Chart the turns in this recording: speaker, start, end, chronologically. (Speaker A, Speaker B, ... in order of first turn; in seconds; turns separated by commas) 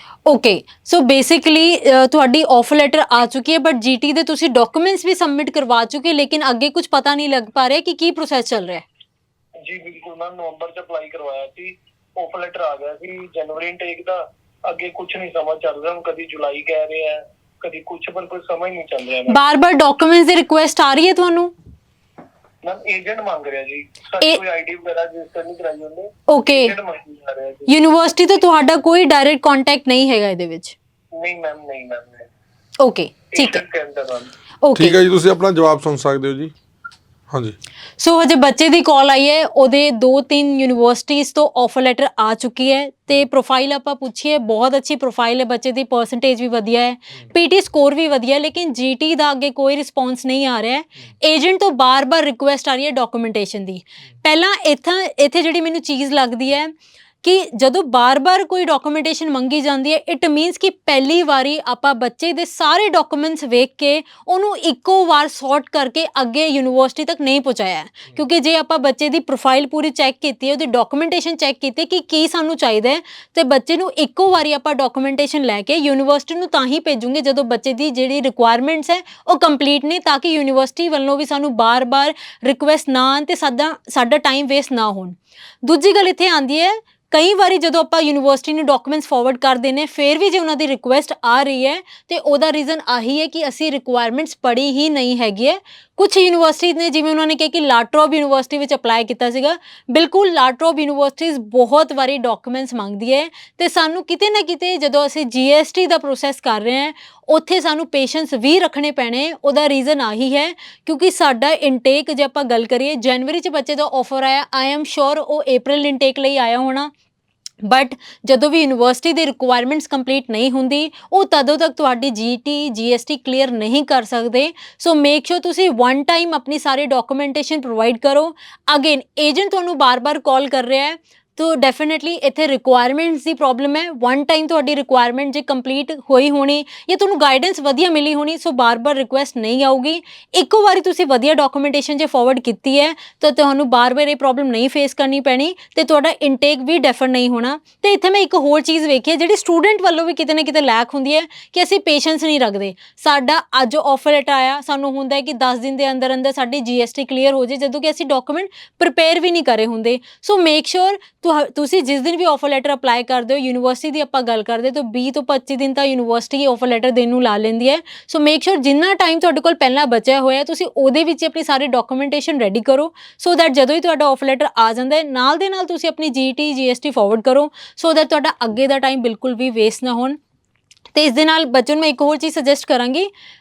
Speaker A: 0.3-8.8, Speaker B: 9.6-19.4, Speaker A: 19.3-21.5, Speaker B: 22.6-27.7, Speaker A: 26.3-26.7, Speaker A: 27.7-30.8, Speaker B: 31.1-32.3, Speaker A: 32.8-33.6, Speaker B: 33.3-34.3, Speaker A: 34.6-35.0, Speaker C: 34.8-36.5, Speaker C: 37.3-37.6, Speaker A: 38.0-116.9, Speaker A: 117.6-180.2, Speaker A: 180.9-183.1